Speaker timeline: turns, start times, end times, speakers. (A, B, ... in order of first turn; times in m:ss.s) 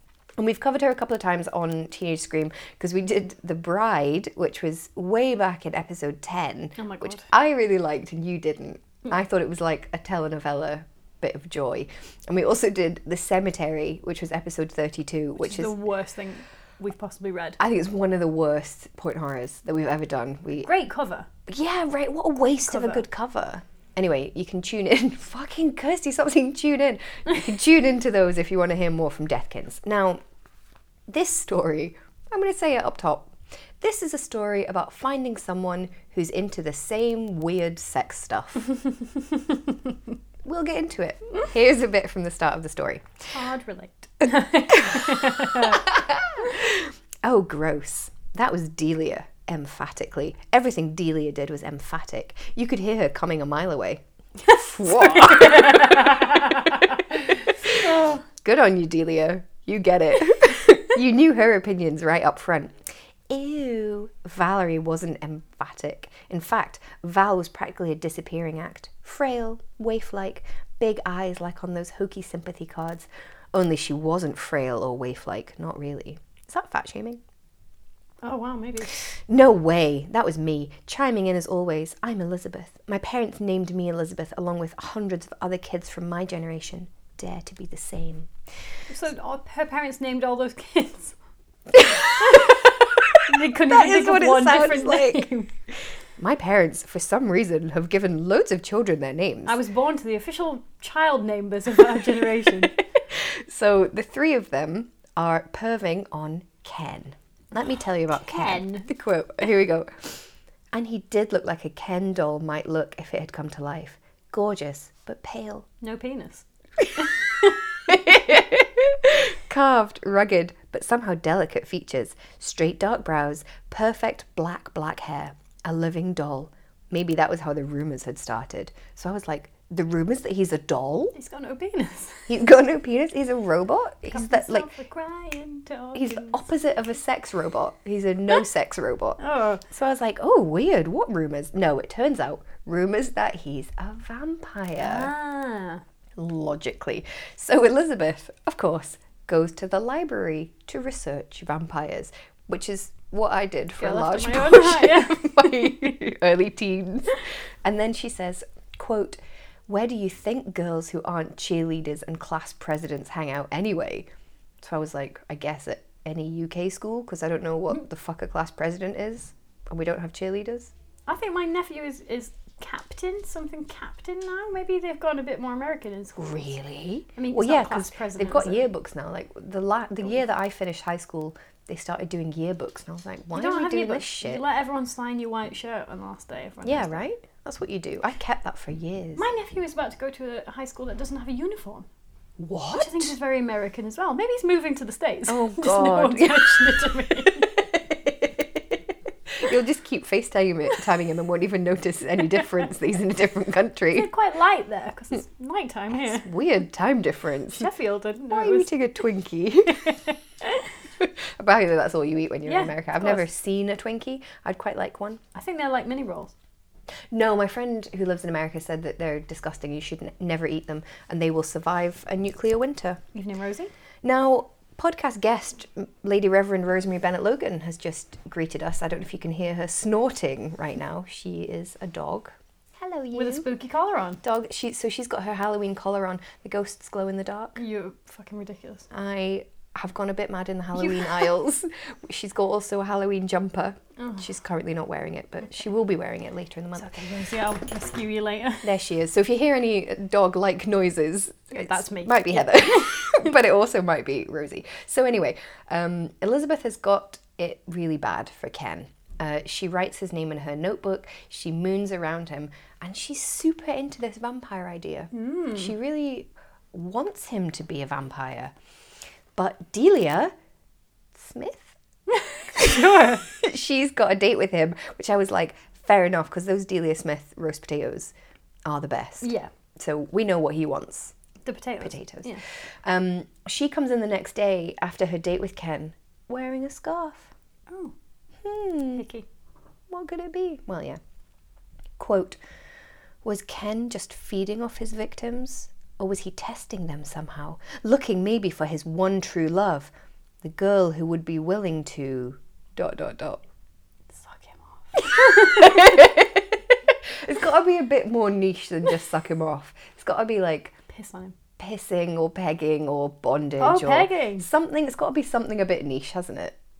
0:00.4-0:15.7 A
0:06.8-0:07.3 B
0:15.4-0:17.6 B
0:17.6-0:20.7 A
0:20.6-0:21.3 B
0:21.5-0:30.2 A
0:22.7-0:23.0 B
0:31.1-0:38.7 A
0:39.4-0:39.8 B
0:40.4-0:43.0 A
0:43.3-0:45.9 B
0:44.8-0:56.4 A
0:54.5-0:58.2 B
0:57.5-0:57.8 A
0:58.4-1:02.8 A
1:03.3-1:17.2 A
1:18.2-1:19.1 B
1:19.1-1:28.3 A
1:28.9-1:31.2 B
1:31.8-1:32.7 A
1:32.2-1:35.5 B
1:33.5-1:35.3 A
1:36.2-1:39.6 A
1:39.4-1:42.7 B
1:43.1-1:55.7 A
1:48.2-1:48.9 B
1:55.8-1:56.4 B
1:57.0-1:57.9 B
1:57.9-2:11.1 A
2:11.1-2:12.3 B
2:12.3-2:14.7 A
2:14.1-2:16.5 B
2:16.0-2:25.1 A
2:19.2-2:19.6 B
2:24.8-2:25.8 B
2:26.2-2:44.1 A
2:33.8-2:35.8 B
2:44.6-2:50.7 A
2:51.1-2:56.5 B
2:56.2-3:04.4 A
2:57.2-2:58.7 B
3:03.3-3:07.0 B
3:06.6-3:09.3 A
3:09.2-3:11.9 B
3:12.4-3:13.1 A
3:12.7-3:17.6 B
3:15.3-3:18.8 A
3:19.3-3:24.1 A
3:23.9-3:26.3 B
3:25.9-3:27.7 A
3:27.5-3:28.7 B
3:28.3-3:29.9 A
3:29.7-3:30.7 B
3:31.0-3:35.2 A
3:32.4-3:33.3 B
3:35.3-3:36.3 B
3:37.1-3:43.0 A
3:43.1-3:43.7 B
3:44.0-3:53.5 A
3:53.1-3:54.2 B
3:54.2-3:57.6 A
3:57.6-3:58.9 B
3:58.9-4:06.9 A
4:00.8-4:01.3 B
4:04.0-4:04.3 B
4:06.8-4:08.7 B
4:08.6-4:28.5 A
4:11.5-4:13.1 B
4:25.1-4:25.7 B
4:29.4-4:30.3 A
4:31.1-4:31.8 A
4:32.1-4:33.3 B
4:32.6-4:38.1 A
4:38.6-4:41.1 A
4:39.2-4:39.5 B
4:41.4-4:42.4 B
4:41.8-4:47.3 A
4:47.7-4:47.9 B
4:48.4-4:49.0 A
4:49.0-4:49.2 B
4:49.9-4:51.0 A
4:52.0-4:52.4 A
4:53.2-5:03.4 A
5:04.1-5:06.0 B
5:05.0-5:10.8 A
5:10.9-5:11.4 B
5:11.6-5:16.5 A
5:13.6-5:14.5 B